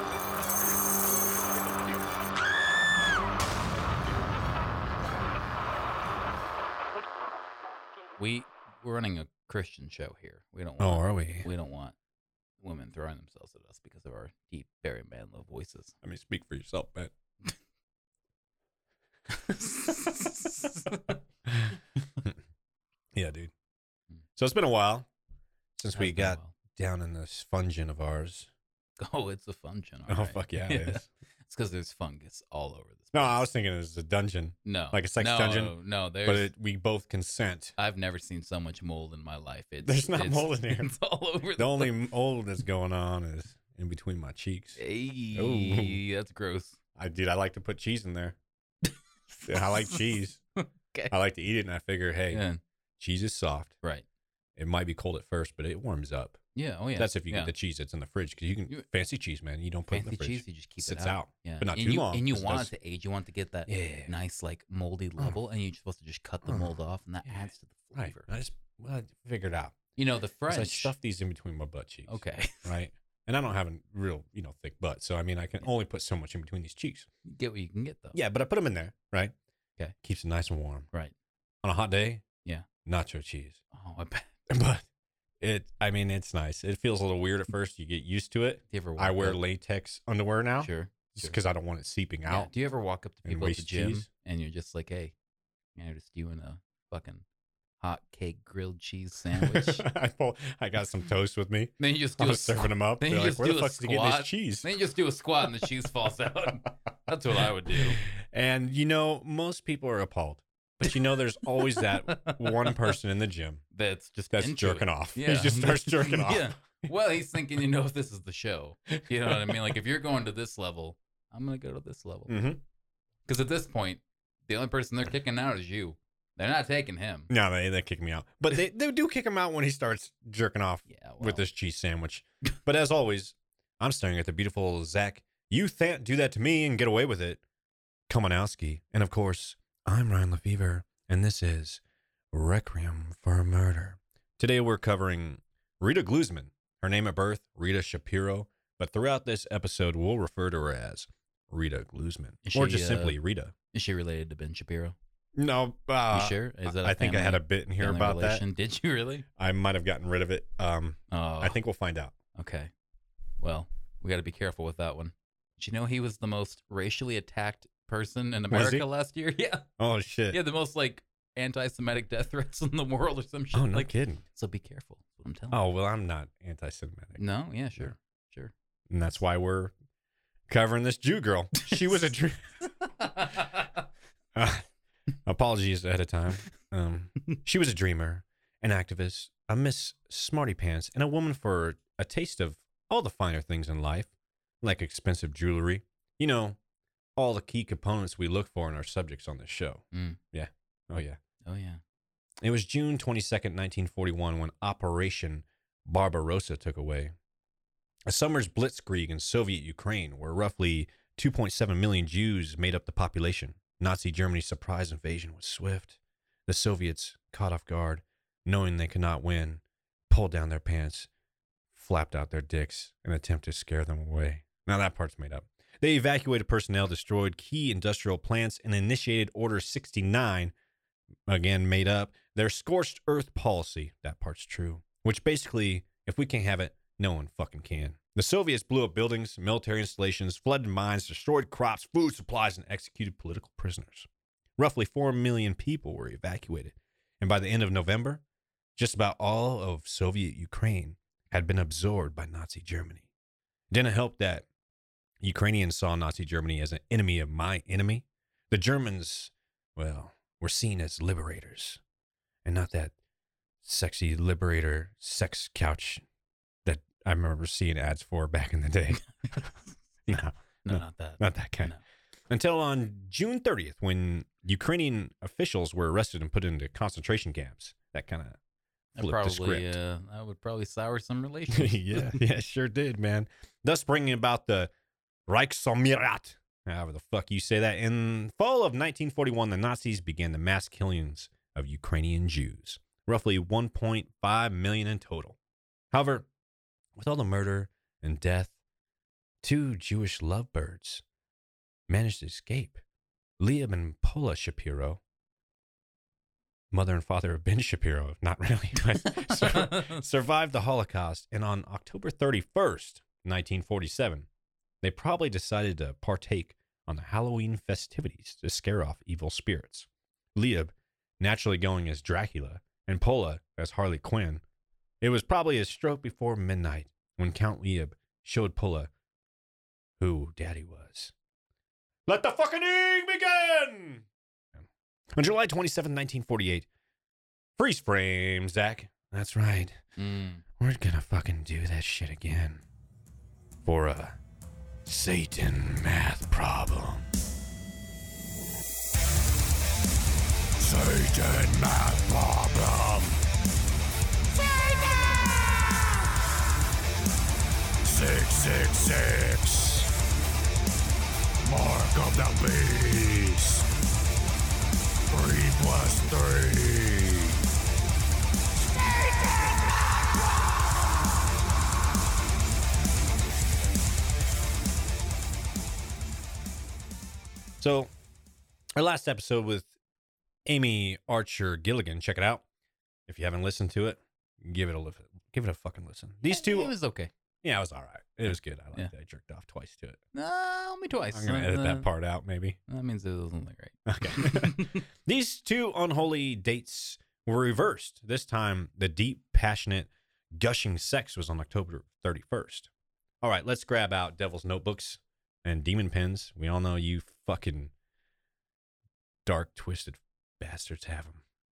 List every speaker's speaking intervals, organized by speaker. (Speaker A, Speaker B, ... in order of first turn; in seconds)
Speaker A: 8.2-11.9, 12.6-15.9, 19.4-21.2, 25.9-26.5, 29.0-33.5, 34.6-36.5, 37.8-41.9, 44.8-46.8, 49.4-50.0, 52.3-52.6, 56.5-57.5, 59.9-68.3, 70.0-70.9, 72.1-72.7, 77.2-78.2, 83.7-84.3, 88.7-89.4, 90.6-91.3, 92.2-95.1, 95.8-97.2, 97.8-99.8, 101.8-108.0, 111.6-112.9, 113.7-122.5, 123.2-127.3, 130.9-131.4, 152.4-153.2, 153.7-154.9, 156.1-159.2, 161.1-161.6, 162.3-162.7, 163.4-169.7, 170.3-175.6, 177.2-178.5, 183.0-183.7, 199.9-200.2, 201.4-201.8, 270.6-271.8, 278.9-282.2, 309.1-310.0, 340.0-340.4, 386.3-387.1, 390.1-391.9, 392.7-394.8
Speaker B: 10.8-11.5, 16.0-17.1, 21.5-21.8, 23.1-23.5, 24.4-25.1, 25.8-28.5, 30.1-31.1, 33.1-37.7, 39.8-40.9, 41.5-44.8, 45.3-46.0, 47.0-48.4, 49.5-50.4, 51.1-52.4, 53.0-53.8, 54.6-56.4, 57.0-62.7, 63.7-64.1, 66.5-66.8, 67.9-69.8, 70.5-77.1, 78.1-79.3, 80.0-80.9, 81.6-82.2, 82.8-83.6, 84.5-84.8, 85.4-92.5, 93.2-94.1, 99.4-104.7, 107.7-113.6, 114.3-116.6, 119.0-119.8, 122.3-122.6, 127.3-137.4, 138.1-141.8, 142.3-153.5, 155.3-158.4, 159.4-162.1, 168.5-168.8, 169.8-170.4, 173.5-174.2, 175.5-177.2, 178.9-179.7, 180.5-182.4, 184.3-184.7, 185.2-194.1, 194.6-196.6, 197.2-201.2, 202.4-207.1, 208.1-221.1, 221.7-230.5, 231.3-248.2, 248.8-253.1, 253.7-254.4, 255.2-261.8, 262.4-262.9, 263.6-266.0, 266.6-269.5, 270.1-271.7, 272.3-278.4, 279.0-279.8, 281.5-284.7, 285.3-295.4, 295.9-296.3, 296.9-298.5, 299.4-301.0, 301.9-302.8, 303.4-305.0, 306.7-314.3, 314.8-324.4, 325.0-328.9, 330.0-331.1, 332.1-336.7, 337.6-339.8, 340.6-342.6, 343.6-344.2, 344.8-347.1, 377.6-377.9, 378.8-379.7, 380.4-382.4, 383.1-386.7, 387.4-390.0, 391.1-392.6, 393.9-402.7, 403.2-407.7, 409.2-411.2
Speaker C: 350.6-353.2, 357.8-359.9, 361.4-363.7, 365.1-367.4